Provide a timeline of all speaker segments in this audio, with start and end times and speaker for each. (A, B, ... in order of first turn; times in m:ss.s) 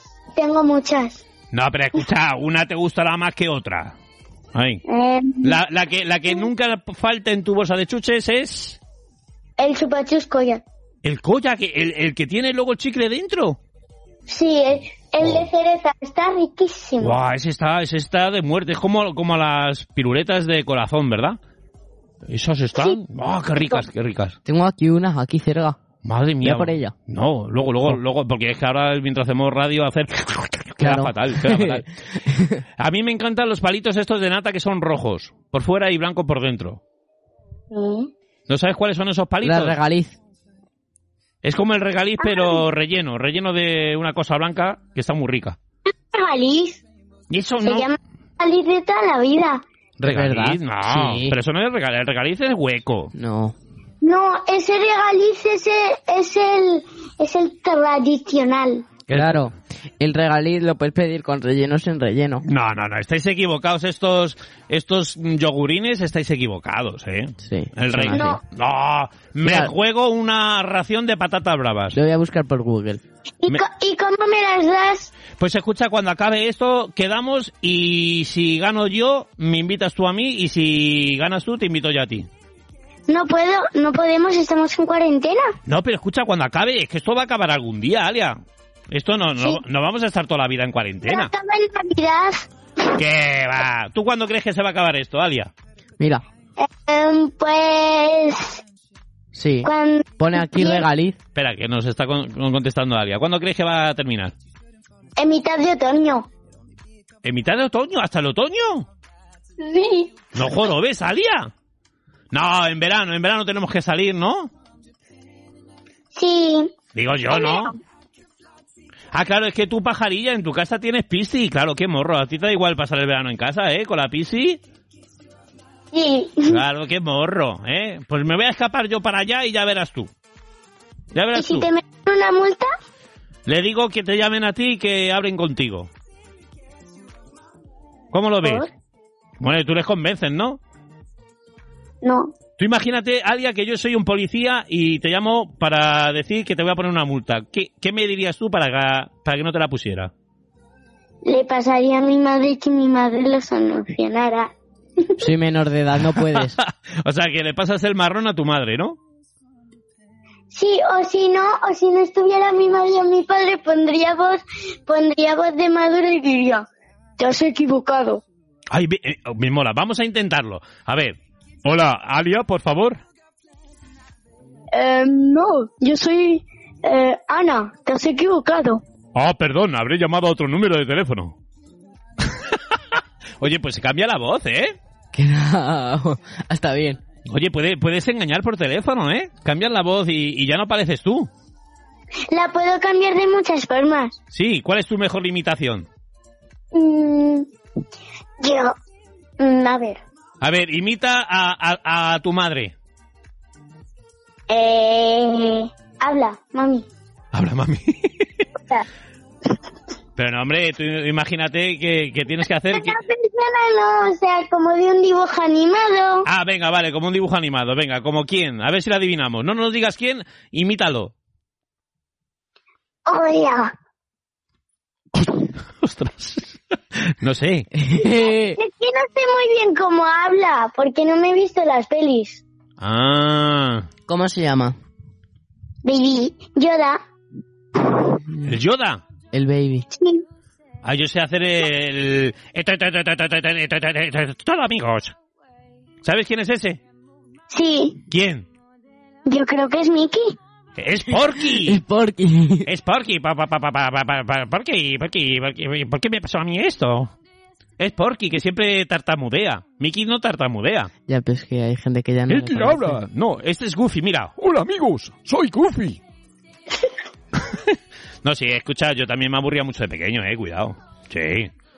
0:00.3-0:01.2 A
0:01.5-0:03.9 B
0:04.5-0:04.8 B
0:04.9-0:05.6 A
0:05.4-0:08.8 B
0:09.6-0:10.6 A
0:11.0-0:13.6 B
0:14.3-0:17.2 A
0:15.2-0:15.5 B
0:17.0-0:21.4 B
0:22.2-0:24.4 B
0:24.4-0:25.8 C
0:26.0-0:31.9 B
0:26.4-0:26.9 C
0:30.8-0:32.6 C
0:32.8-0:36.8 B
0:37.7-0:38.1 A
0:38.5-0:39.8 B
0:39.4-0:40.2 C
0:41.4-0:45.6 B
0:42.2-0:42.6 A
0:46.1-0:46.8 A
0:47.3-0:47.9 B
0:47.6-0:49.6 A
0:50.0-0:53.1 B
0:50.0-0:51.4 C
0:53.1-0:53.6 C
0:54.0-0:58.9 A
0:59.1-0:59.5 B
0:59.1-1:02.4 C
1:02.4-1:12.0 B
1:07.4-1:08.4 C
1:08.1-1:08.4 A
1:09.4-1:09.7 C
1:11.9-1:13.0 C
1:13.4-1:15.1 A
1:15.3-1:22.3 B
1:23.1-1:25.5 A
1:25.6-1:28.4 B
1:28.9-1:31.3 B
1:31.0-1:32.5 A
1:32.9-1:35.5 B
1:36.0-1:36.2 C
1:36.6-1:38.6 A
1:39.3-1:41.2 C
1:39.6-1:40.8 A
1:41.3-1:44.3 B
1:45.2-1:46.3 A
1:47.2-1:48.9 B
1:49.6-1:50.1 A
1:50.3-1:51.5 B
1:52.3-1:54.5 B
1:56.1-1:56.7 A
1:56.9-1:57.7 B
1:57.3-1:57.8 A
1:59.1-2:04.6 B
2:05.9-2:06.6 A
2:06.5-2:10.1 B
2:11.1-2:11.7 B
2:11.3-2:12.7 A
2:13.4-2:15.9 B
2:18.1-2:18.6 B
2:18.4-2:18.7 A
2:19.4-2:20.6 B
2:22.0-2:22.3 A
2:22.6-2:30.1 B
2:31.2-2:35.2 A
2:35.2-2:36.6 C
2:36.1-2:39.0 B
2:40.5-2:46.7 A
2:47.2-2:48.2 A
2:48.7-2:53.0 B
2:54.7-2:58.8 A
2:59.1-3:01.4 B
3:03.4-3:04.8 B
3:05.1-3:07.0 C
3:07.2-3:11.3 B
3:12.3-3:14.2 A
3:14.3-3:15.9 B
3:16.7-3:17.5 A
3:18.4-3:18.8 A
3:19.4-3:20.0 A
3:20.4-3:22.7 B
3:24.5-3:26.9 A
3:27.3-3:28.4 B
3:30.2-3:33.0 B
3:32.7-3:36.3 A
3:36.2-3:41.1 B
3:43.0-3:43.7 A
3:45.1-3:46.6 B
3:47.2-3:47.7 B
3:47.7-3:48.6 C
3:48.0-3:52.4 A
3:52.8-3:53.9 B
3:54.1-3:54.8 C
3:55.8-3:57.0 A
3:58.4-3:59.0 B
3:59.3-3:59.9 C
3:59.9-4:00.2 A
4:00.8-4:05.1 B
4:06.0-4:06.8 B
4:07.5-4:08.0 A
4:08.1-4:08.5 B
4:09.2-4:10.4 A
4:10.8-4:11.8 B
4:11.6-4:12.7 C
4:12.6-4:17.1 B
4:17.8-4:20.9 B
4:21.1-4:23.0 C
4:22.3-4:26.0 B
4:27.3-4:31.5 B